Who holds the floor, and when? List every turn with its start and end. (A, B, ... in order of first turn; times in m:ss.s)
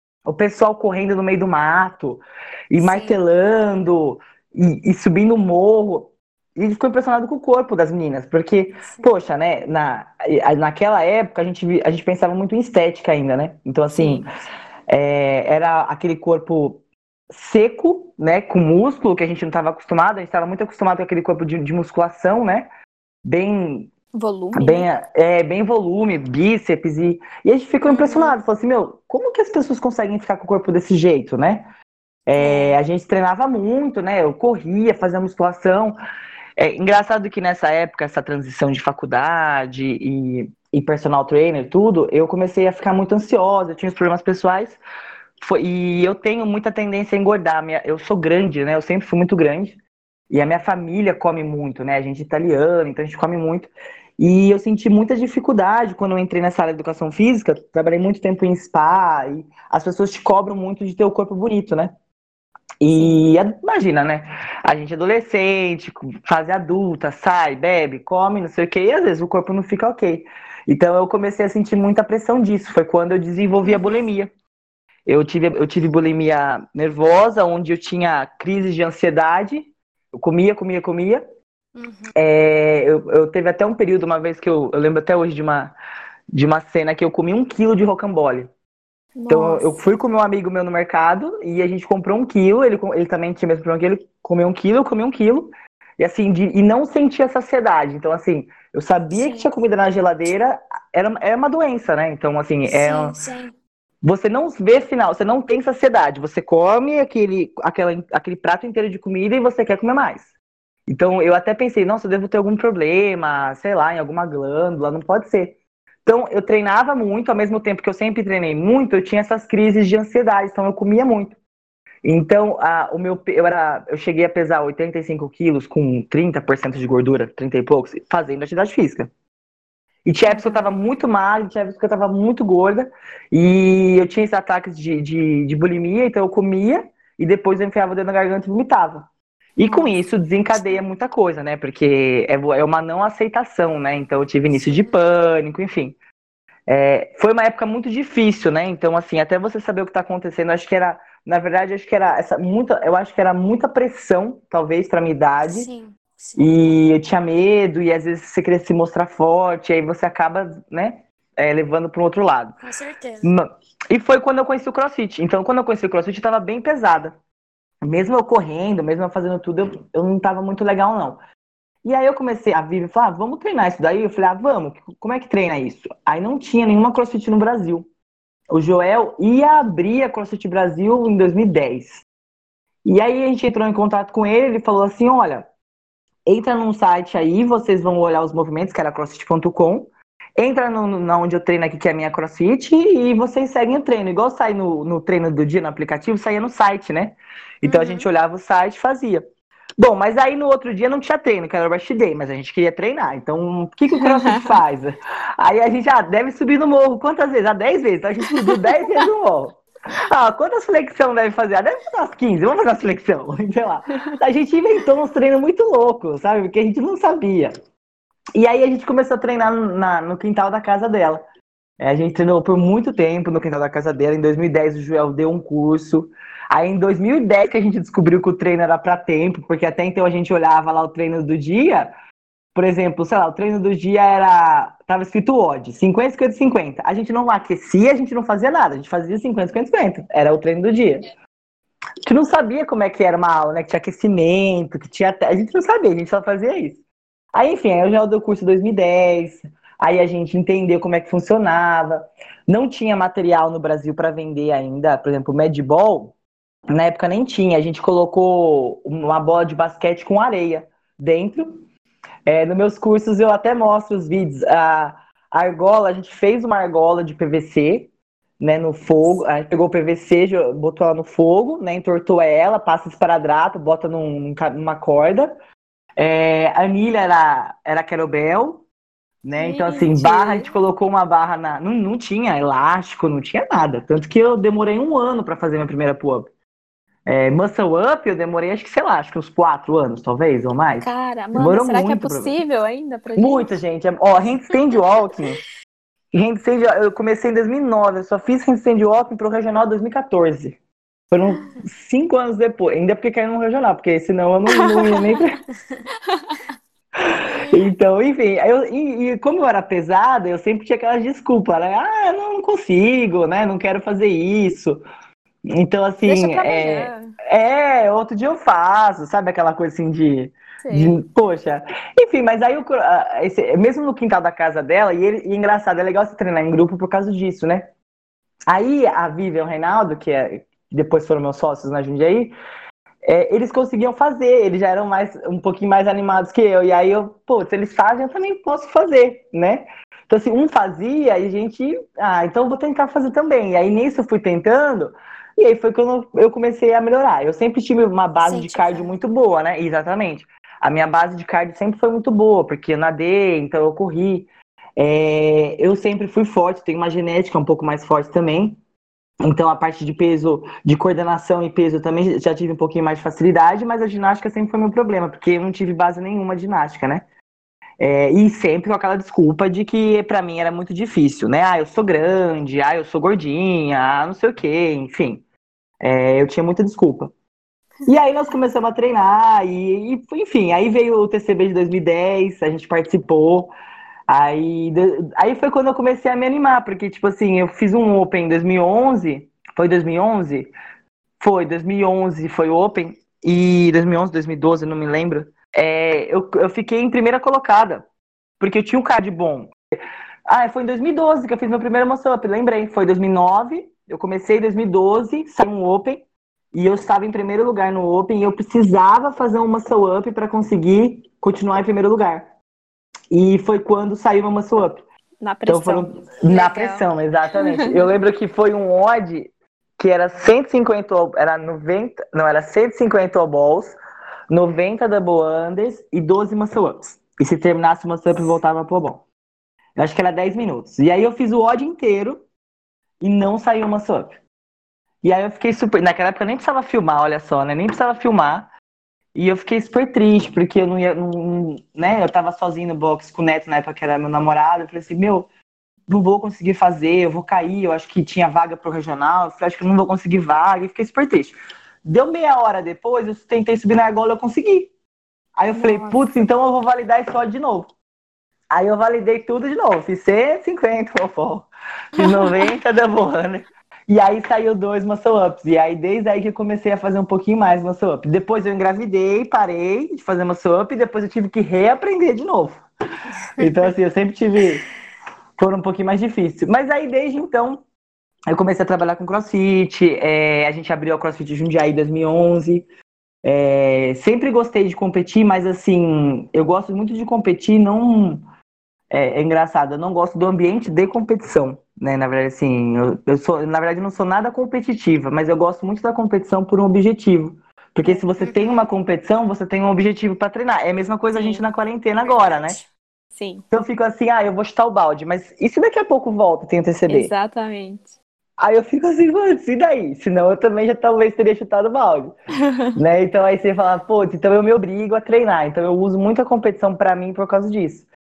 0:00.2-0:14.3 A
0:02.8-0:03.2 B
0:14.9-0:22.7 A
0:23.2-0:23.9 A
0:24.1-0:24.8 C
0:24.5-0:31.7 A
0:27.8-0:28.4 B
0:32.3-0:36.0 A
0:32.4-0:32.8 B
0:36.6-0:44.8 A
0:45.4-0:49.8 A
0:50.3-1:01.9 A
1:02.8-1:14.3 A
1:13.6-1:14.0 B
1:15.0-1:21.2 A
1:21.7-1:22.1 B
1:22.1-1:25.8 A
1:26.3-1:28.5 A
1:29.2-1:29.6 C
1:29.3-1:43.2 A
1:39.1-1:39.5 B
1:42.6-1:43.5 B
1:44.0-1:50.3 A
1:50.9-2:01.4 A
2:02.0-2:09.1 A
2:10.0-2:19.0 A
2:10.3-2:10.6 B
2:19.6-2:26.0 A
2:24.5-2:25.0 B
2:26.7-2:35.7 A
2:35.4-2:36.7 B
2:36.4-2:42.6 A
2:42.6-2:43.3 B
2:43.2-2:47.1 A
2:47.8-2:51.2 A
2:51.8-2:57.9 A
2:58.5-3:02.0 A
3:02.8-3:05.4 A
3:06.2-3:19.2 A
3:17.6-3:18.1 B
3:19.8-3:37.5 A
3:24.0-3:24.4 C
3:38.4-3:41.2 A
3:41.8-3:51.9 A
3:52.5-4:01.1 A
4:02.0-4:06.8 A
4:07.3-4:16.1 A
4:16.7-4:21.6 A
4:22.2-4:35.4 A
4:36.0-4:38.6 A
4:39.2-4:46.3 A
4:39.4-4:40.6 C
4:47.0-4:52.4 A
4:50.8-4:53.5 C
4:53.2-4:55.4 A
4:56.1-5:00.6 A
5:01.1-5:05.4 A
5:07.0-5:14.8 A
5:15.5-5:27.7 A
5:16.0-5:17.1 C
5:20.6-5:21.0 C
5:28.5-5:32.3 A
5:33.0-5:58.6 A
5:48.2-5:49.0 B
5:59.2-6:07.0 A
6:07.8-6:15.2 A
6:15.8-6:17.1 A
6:17.8-6:23.5 A
6:24.1-6:30.5 A
6:31.2-6:37.8 A
6:38.4-6:39.5 A
6:40.3-6:52.3 A
6:53.1-6:54.8 A
6:55.2-6:56.8 C
6:55.4-7:03.8 A
7:04.3-7:09.0 A
7:09.8-7:12.2 A
7:13.0-7:14.2 A
7:15.0-7:18.5 A
7:19.1-7:25.3 A
7:25.9-7:34.7 A
7:35.4-7:37.7 A
7:35.5-7:36.1 C
7:38.5-7:52.6 A
7:42.0-7:42.3 C
7:53.4-7:54.6 A
7:55.4-7:57.6 A
7:58.3-8:02.7 A
8:03.2-8:08.2 A
8:08.9-8:22.6 A
8:18.2-8:18.6 B
8:21.1-8:21.4 C
8:22.0-8:22.6 B
8:23.1-8:23.4 C
8:23.5-8:27.1 A
8:26.9-8:27.9 C
8:28.4-8:32.1 A
8:32.7-8:37.9 A